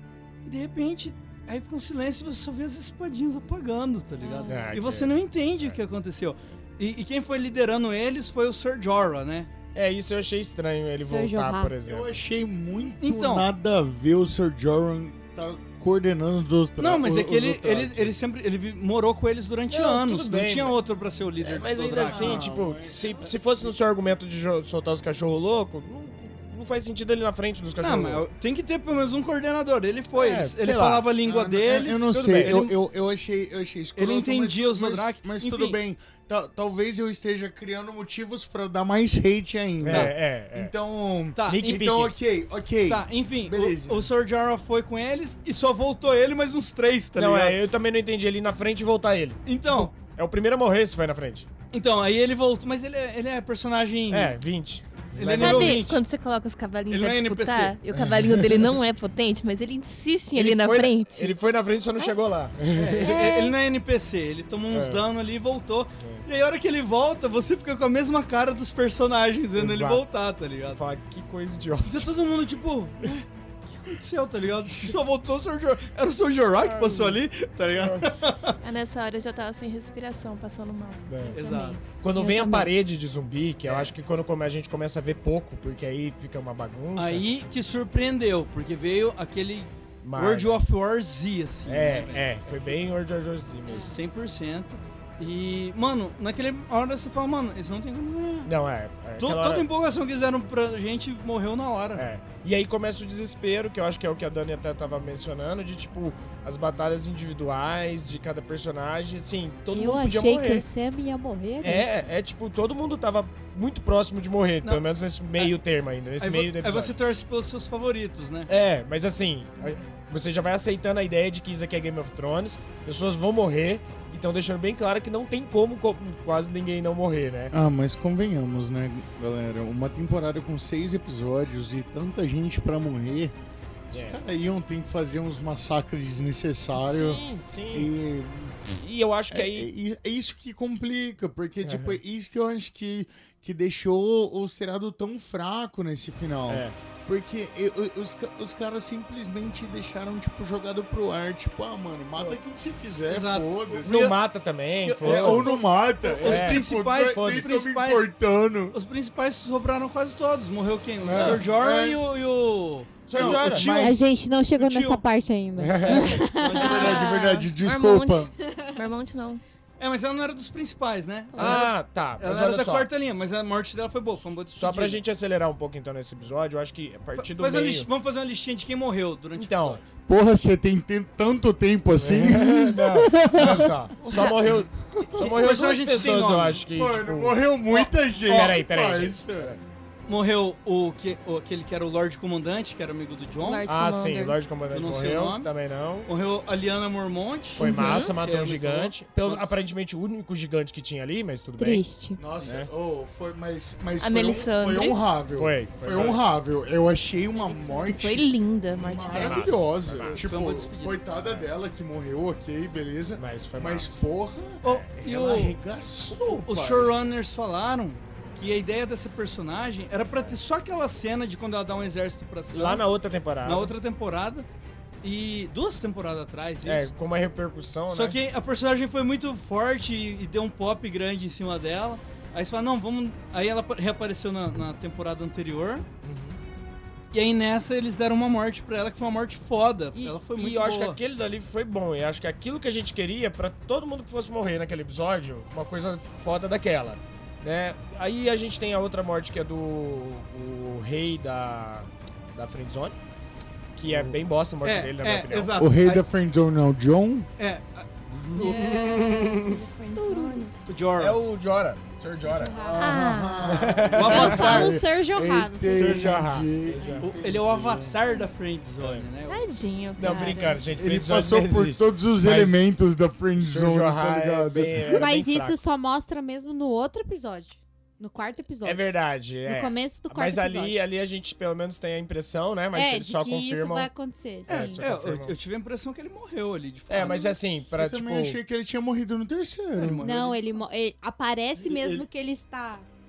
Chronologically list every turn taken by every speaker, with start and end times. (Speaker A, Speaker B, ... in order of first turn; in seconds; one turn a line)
Speaker A: 0.5-9.5
Speaker B: 4.2-4.6
Speaker C: 4.5-5.8
Speaker C: 9.7-12.2
Speaker B: 11.0-11.7
Speaker D: 11.8-18.1
Speaker A: 13.0-13.5
Speaker A: 16.8-22.5
Speaker C: 19.7-20.8
Speaker C: 21.4-28.2
Speaker D: 22.0-23.3
Speaker A: 27.8-32.7
Speaker C: 30.1-31.1
Speaker D: 31.2-44.1
Speaker C: 32.1-32.6
Speaker A: 34.0-35.8
Speaker C: 39.8-40.7
Speaker A: 39.9-40.1
Speaker A: 41.4-42.0
Speaker C: 41.5-42.1
Speaker A: 42.9-47.6
Speaker C: 47.2-51.5
Speaker A: 49.5-49.9
Speaker A: 51.7-54.4
Speaker C: 54.1-55.9
Speaker A: 55.1-56.0
Speaker E: 55.4-61.4
Speaker A: 56.9-57.8
Speaker C: 57.9-58.8
Speaker C: 60.4-63.2
Speaker A: 62.7-70.8
Speaker E: 63.0-63.5
Speaker C: 64.7-65.0
Speaker C: 69.5-70.0
Speaker C: 70.6-72.2
Speaker A: 71.8-78.6
Speaker C: 76.7-77.2
Speaker C: 77.8-78.5
Speaker E: 78.6-82.7
Speaker C: 81.1-81.4
Speaker A: 81.4-81.8
Speaker B: 81.4-81.7
Speaker C: 82.0-87.2
Speaker A: 83.7-83.9
Speaker A: 87.0-92.8
Speaker C: 90.0-90.6
Speaker C: 91.7-93.9
Speaker B: 93.7-93.9
Speaker A: 93.7-98.5
Speaker C: 98.5-99.7
Speaker A: 99.2-102.0
Speaker C: 102.0-110.7
Speaker B: 109.7-111.9
Speaker C: 111.6-116.9
Speaker A: 116.2-118.5
Speaker C: 118.5-127.5
Speaker D: 127.5-133.3
Speaker D: 133.9-138.7
Speaker C: 133.9-134.2
Speaker C: 136.8-137.9
Speaker C: 138.8-139.7
Speaker D: 139.3-154.1
Speaker C: 141.7-142.0
Speaker C: 146.5-146.8
Speaker A: 153.1-154.2
Speaker C: 153.8-155.6
Speaker A: 154.8-158.1
Speaker D: 155.0-158.8
Speaker C: 156.2-156.6
Speaker A: 158.7-164.0
Speaker C: 161.1-161.4
Speaker D: 161.1-162.0
Speaker C: 163.1-163.7
Speaker D: 163.2-163.9
Speaker B: 163.6-167.1
Speaker A: 164.6-165.0
Speaker C: 165.6-166.4
Speaker A: 166.3-167.3
Speaker D: 166.6-168.3
Speaker E: 167.0-169.4
Speaker A: 169.8-175.0
Speaker C: 171.4-172.9
Speaker C: 174.6-177.9
Speaker A: 177.2-179.8
Speaker C: 179.4-179.8
Speaker D: 180.1-184.3
Speaker C: 182.0-187.4
Speaker A: 184.0-184.3
Speaker D: 184.9-185.3
Speaker A: 185.1-186.6
Speaker D: 186.7-189.6
Speaker A: 187.7-188.6
Speaker C: 188.3-189.6
Speaker A: 190.1-193.7
Speaker E: 193.4-194.4
Speaker C: 193.7-196.1
Speaker A: 194.7-195.5
Speaker A: 196.1-199.6
Speaker E: 197.6-198.2
Speaker C: 197.6-201.8
Speaker B: 201.6-202.2
Speaker D: 202.2-217.0
Speaker E: 204.0-205.0
Speaker C: 205.3-206.2
Speaker B: 207.4-208.0
Speaker E: 207.7-209.6
Speaker C: 209.1-210.2
Speaker A: 210.0-211.0
Speaker C: 211.2-211.5
Speaker C: 213.2-214.0
Speaker A: 214.6-215.6
Speaker A: 216.1-224.5
Speaker C: 222.5-223.7
Speaker A: 225.0-226.9
Speaker C: 226.7-228.2
Speaker A: 227.9-235.8
Speaker C: 236.0-236.4
Speaker A: 237.1-241.0
Speaker C: 240.0-253.0
Speaker C: 253.8-255.6
Speaker D: 253.9-254.2
Speaker A: 254.6-256.0
Speaker D: 255.6-257.3
Speaker A: 257.4-257.9
Speaker D: 258.1-258.7
Speaker B: 258.4-260.5
Speaker C: 258.5-259.5
Speaker E: 259.9-260.6
Speaker A: 260.7-261.2
Speaker C: 261.0-262.8
Speaker B: 262.2-263.1
Speaker D: 262.5-268.0
Speaker E: 262.8-263.5
Speaker C: 263.5-264.7
Speaker A: 263.9-264.8
Speaker B: 264.0-266.2
Speaker C: 265.7-267.1
Speaker A: 267.0-269.5
Speaker C: 268.8-269.1
Speaker E: 269.3-270.7
Speaker C: 270.0-272.7
Speaker B: 270.1-270.4
Speaker D: 270.8-275.1
Speaker C: 273.4-275.6
Speaker B: 274.9-278.9
Speaker C: 278.6-283.9
Speaker B: 279.4-280.8
Speaker B: 282.7-284.8
Speaker C: 284.5-285.3
Speaker A: 284.5-287.4
Speaker C: 286.9-288.4
Speaker D: 287.8-290.0
Speaker A: 289.8-290.4
Speaker B: 290.0-292.9
Speaker A: 291.6-292.1